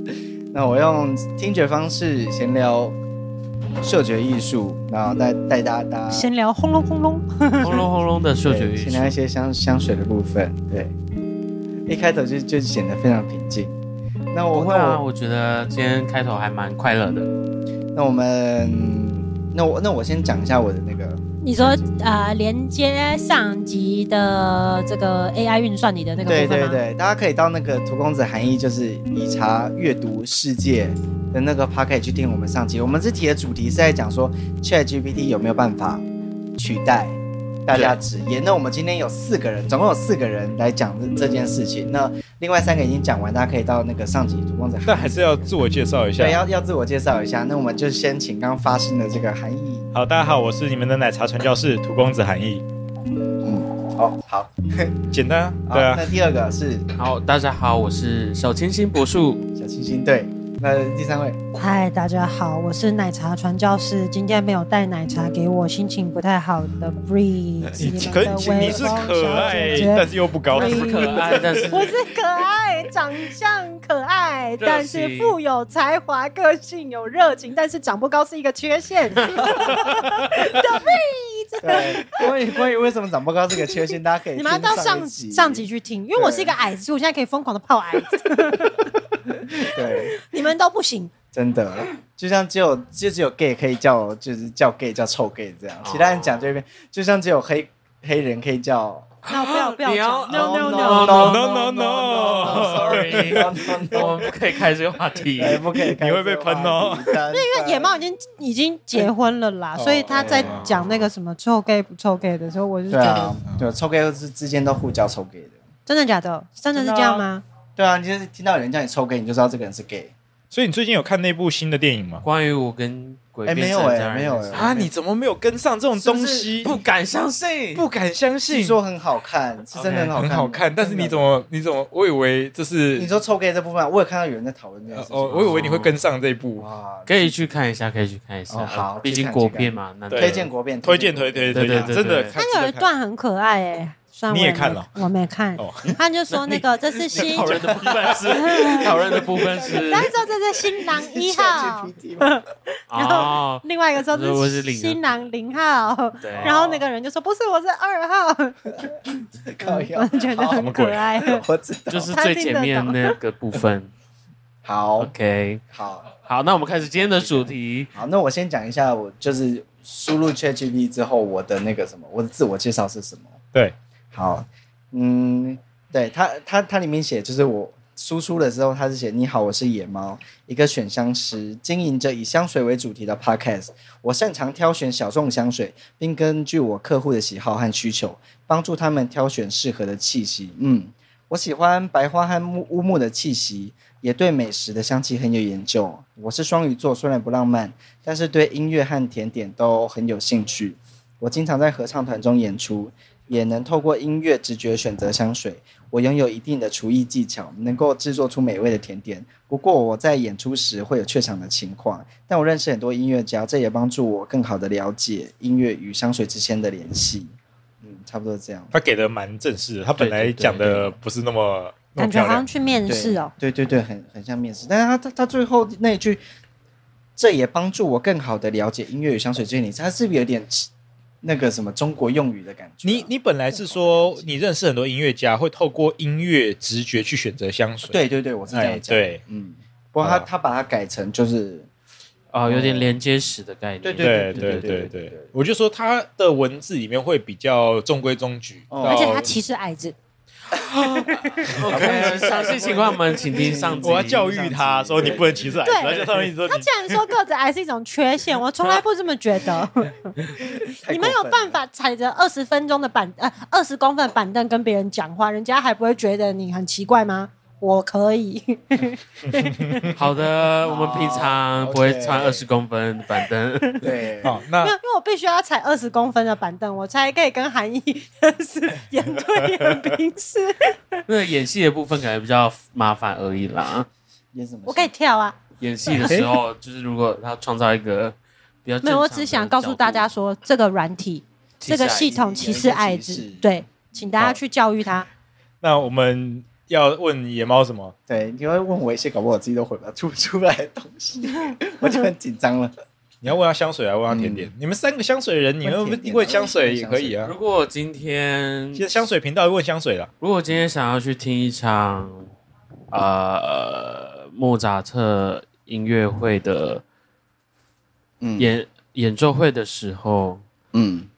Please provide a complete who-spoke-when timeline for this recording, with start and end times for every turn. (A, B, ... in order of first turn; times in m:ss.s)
0:00.5-0:03.0 A
0:03.8-0:06.3 A
0:06.1-0:07.9 B
0:07.6-0:09.2 C
0:08.4-0:10.9 A
0:11.9-0:13.8 A
0:14.3-0:15.0 A
0:14.5-0:17.3 C
0:17.9-0:21.2 A
0:21.4-0:26.8 B
0:26.3-0:36.0 A
0:36.6-0:45.6 A
0:37.7-0:38.0 C
0:44.9-0:46.4 D
0:46.2-0:49.9 A
0:49.9-0:52.6 D
0:53.4-0:55.0 A
0:55.1-0:56.0 D
0:55.7-0:56.9 A
0:57.0-0:59.4 C
0:59.6-1:01.4 A
1:01.6-1:22.3 B
1:07.8-1:11.9 D
1:08.5-1:09.9 A
1:10.5-1:12.0 C
1:14.6-1:15.4 C
1:19.4-1:19.8 A
1:21.6-1:26.6 A
1:23.6-1:28.9 B
1:29.5-1:31.1 B
1:29.6-1:30.2 A
1:31.3-1:39.2 A
1:35.8-1:36.5 C
1:39.2-1:41.5 C
1:39.3-1:41.3 B
1:40.3-1:44.3 A
1:41.1-1:44.0 D
1:42.1-1:45.7 C
1:45.4-1:48.0 A
1:46.0-1:47.2 D
1:47.3-1:53.4 B
1:49.8-1:50.8 D
1:50.1-1:51.0 A
1:52.9-1:55.6 A
1:55.9-1:57.4 B
1:56.7-2:00.1 A
2:00.5-2:02.2 D
2:02.2-2:04.8 C
2:03.5-2:04.9 A
2:04.5-2:06.8 D
2:06.0-2:06.7 A
2:06.6-2:07.8 C
2:07.8-2:08.8 D
2:08.5-2:11.3 A
2:09.8-2:10.1 C
2:09.8-2:13.1 D
2:13.0-2:15.8 A
2:14.9-2:16.7 D
2:15.3-2:16.0 C
2:16.6-2:17.5 A
2:17.1-2:20.5 C
2:18.5-2:22.2 A
2:20.1-2:22.9 D
2:21.5-2:22.4 C
2:22.4-2:27.6 B
2:24.3-2:25.0 D
2:25.6-2:25.9 D
2:26.3-2:30.1 C
2:27.4-2:30.1 A
2:28.3-2:29.0 B
2:29.8-2:38.8 B
2:30.8-2:32.4 A
2:32.9-2:35.0 C
2:36.2-2:36.8 C
2:36.3-2:36.6 A
2:39.4-2:42.1 A
2:39.6-2:41.4 B
2:40.6-2:41.0 D
2:41.9-2:43.9 C
2:42.1-2:43.2 B
2:44.6-2:45.1 A
2:45.0-2:45.6 C
2:45.7-2:46.1 A
2:46.2-2:47.9 C
2:47.0-2:53.4 A
2:54.1-3:38.7 A
3:38.7-3:42.4 D
3:40.0-3:41.0 C
3:42.0-3:43.3 B
3:42.9-3:46.2 A
3:47.2-3:50.7 A
3:51.2-3:54.3 A
3:52.8-3:58.0 D
3:57.9-4:01.7 A
3:58.5-3:59.2 D
4:00.0-4:00.3 D
4:02.3-4:05.0 C
4:02.4-4:02.9 A
4:03.8-4:05.3 A
4:04.0-4:09.3 D
4:08.7-4:09.2 A
4:08.8-4:10.0 B
4:10.5-4:14.3 C
4:11.1-4:11.5 B
4:11.4-4:16.2 A
4:11.5-4:12.2 D
4:13.8-4:17.1 D
4:15.0-4:15.4 C
4:15.6-4:15.9 B
4:16.4-4:20.2 B
4:20.4-4:21.6 A
4:20.8-4:29.9 B
4:29.5-4:29.9 D
4:29.9-4:34.0 C
4:30.6-4:32.5 A
4:33.8-4:34.4 A
4:34.2-4:34.8 D
4:34.5-4:41.0 B
4:39.2-4:40.0 D
4:41.1-4:43.9 C
4:44.3-4:44.9 A
4:44.7-4:46.2 B
4:45.6-4:50.1 C
4:46.0-4:46.3 A
4:48.8-4:55.1 B
4:51.6-4:52.1 C
4:51.9-4:54.3 A
4:55.6-4:58.0 D
4:58.1-5:02.7 A
5:03.2-5:07.4 D
5:04.1-5:04.5 A
5:05.6-5:07.2 A
5:07.2-5:08.9 C
5:08.8-5:10.1 D
5:10.2-5:12.3 C
5:12.9-5:16.8 C
5:18.2-5:18.5 A
5:18.4-5:20.4 C
5:20.7-5:21.1 A